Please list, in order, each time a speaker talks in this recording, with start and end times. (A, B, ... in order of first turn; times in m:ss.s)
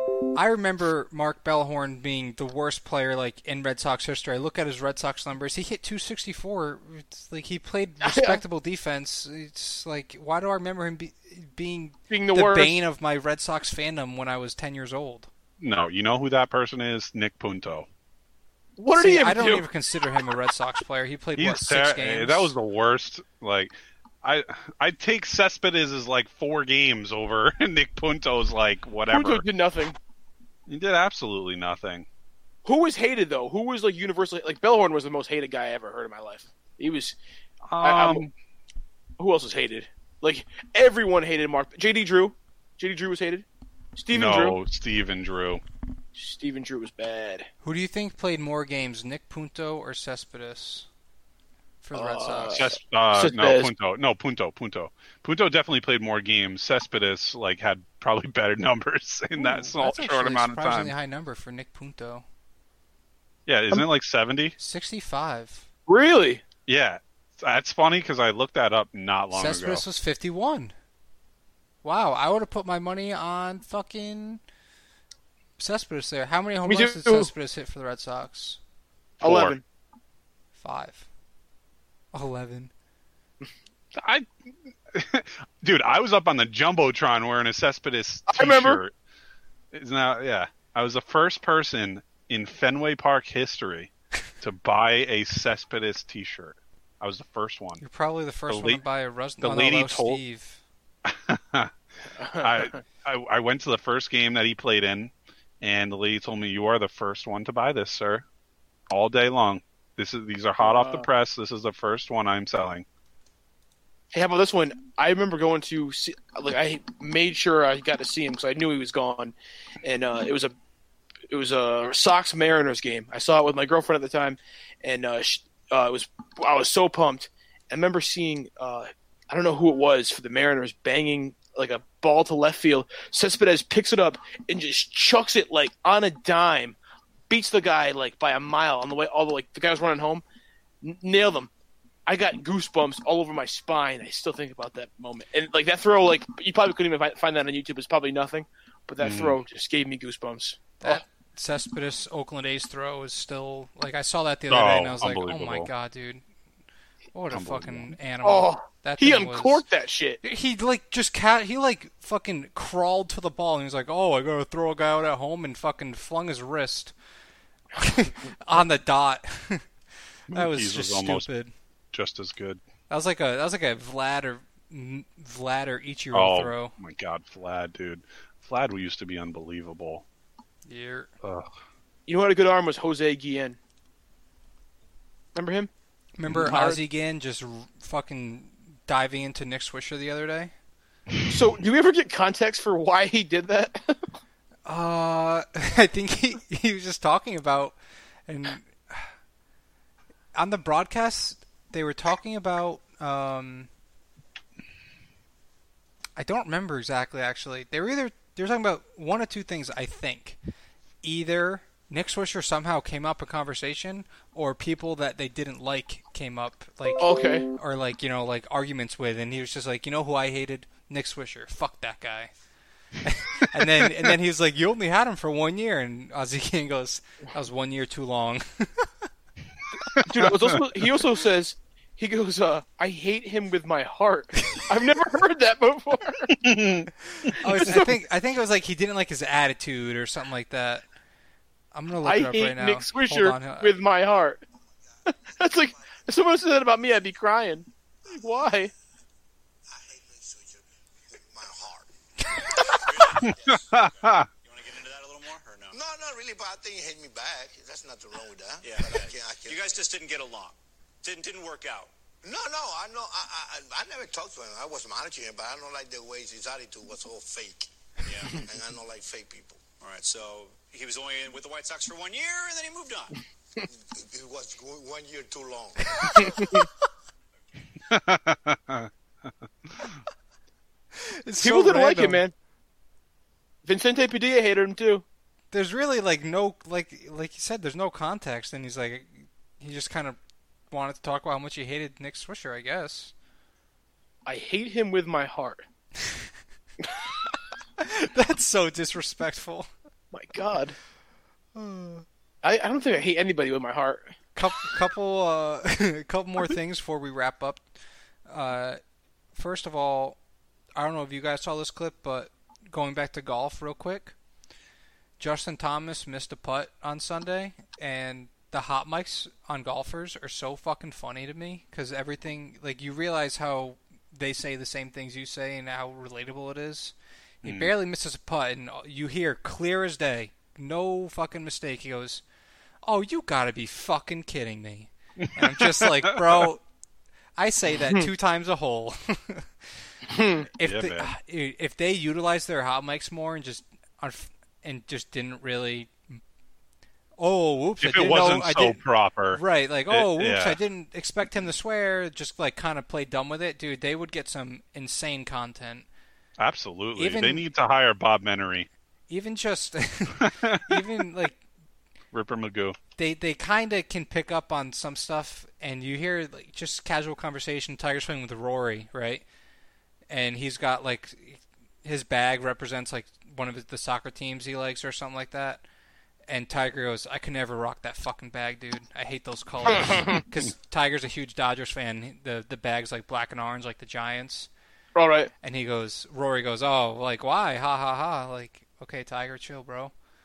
0:00.3-0:15.3 A
0:08.0-0:08.4 B
0:12.1-0:12.8 B
0:15.6-0:17.9 C
0:18.8-0:19.7 B
0:19.0-0:22.5 A
0:21.4-0:29.4 C
0:29.1-0:30.0 B
0:30.7-0:32.1 C
0:32.6-0:37.2 B
0:37.7-0:38.3 C
0:37.8-0:38.2 B
0:39.2-0:44.6 B
0:44.1-0:45.6 C
0:46.2-0:47.5 B
0:47.6-0:50.9 A
0:51.8-0:52.7 A
0:52.0-0:53.7 B
0:52.6-1:00.9 C
0:59.4-1:02.2 A
1:03.5-1:04.6 C
1:04.6-1:05.7 A
1:05.9-1:06.4 B
1:06.7-1:09.8 C
1:09.3-1:10.7 A
1:11.8-1:14.4 A
1:15.6-1:18.6 A
1:16.6-1:17.3 B
1:19.2-1:19.6 C
1:19.2-1:19.6 B
1:20.6-1:21.1 A
1:22.1-1:22.7 A
1:24.0-1:24.3 C
1:24.9-1:28.9 C
1:28.3-1:28.8 B
1:29.7-1:37.8 C
1:37.8-1:40.6 A
1:38.5-1:38.8 C
1:39.4-1:40.2 C
1:41.1-1:41.7 C
1:42.2-1:42.8 B
1:42.4-1:48.3 C
1:48.9-1:52.9 C
1:50.6-1:51.1 B
1:54.1-2:00.5 B
2:01.3-2:16.8 B
2:17.3-2:20.2 B
2:20.8-2:21.5 B
2:22.1-2:31.0 B
2:29.0-2:29.4 C
2:30.8-2:36.2 A
2:34.5-2:35.7 C
2:37.1-2:39.6 A
2:37.3-2:38.0 C
2:38.2-2:40.2 B
2:40.2-2:46.9 A
2:47.8-2:49.7 A
2:50.3-2:51.3 C
2:50.3-2:51.5 A
2:51.9-2:52.6 C
2:52.9-2:56.7 A
2:56.1-3:00.0 C
3:00.6-3:01.1 A
3:01.2-3:01.5 C
3:02.1-3:03.6 B
3:05.4-3:05.7 B
3:06.2-3:10.5 A
3:06.3-3:06.8 B
3:11.3-3:14.1 B
3:14.7-3:19.1 A
3:20.4-3:23.7 A
3:26.2-3:30.4 A
3:31.0-3:42.3 A
3:37.0-3:37.5 B
3:43.0-3:49.1 A
3:43.6-3:44.1 C
3:49.9-3:50.5 C
3:50.0-3:56.4 B
3:56.4-3:57.7 C
3:57.3-4:00.9 A
4:01.7-4:03.7 A
4:02.0-4:04.4 B
4:05.1-4:08.7 B
4:09.7-4:13.7 D
4:12.7-4:15.8 E
4:13.2-4:14.3 C
4:15.7-4:19.9 D
4:18.6-4:21.9 E
4:22.2-4:29.7 D
4:28.1-4:28.5 E
4:29.8-4:33.2 E
4:33.7-4:36.5 D
4:36.2-4:36.6 B
4:37.9-4:38.9 C
4:41.1-4:42.2 A
4:41.4-4:42.3 B
4:43.6-4:45.0 B
4:45.5-4:50.2 A
4:50.7-4:53.1 A
4:54.3-4:55.6 B
4:56.0-4:56.3 A
4:57.8-4:59.7 A
5:00.1-5:00.8 B
5:01.6-5:02.0 A
5:02.4-5:04.0 B
5:04.4-5:07.7 A
5:08.3-5:08.8 A
5:09.3-5:10.2 A
5:10.8-5:14.2 A
5:15.2-5:32.2 A
5:27.4-5:27.7 C
5:32.8-5:36.6 A
5:35.2-5:36.5 C
5:37.4-5:39.8 A
5:40.1-5:40.5 B
5:40.6-5:46.2 A
5:40.6-5:41.1 C
5:47.2-5:48.8 A
5:47.8-5:50.6 C
5:49.3-5:55.9 A
5:56.4-5:58.7 C
5:57.0-5:57.4 A
5:59.1-6:01.4 A
6:00.2-6:00.9 C
6:02.1-6:02.8 C
6:03.0-6:09.3 A
6:10.1-6:15.6 A
6:16.3-6:24.5 A
6:19.7-6:20.2 B
6:25.0-6:25.3 B
6:25.4-6:29.9 A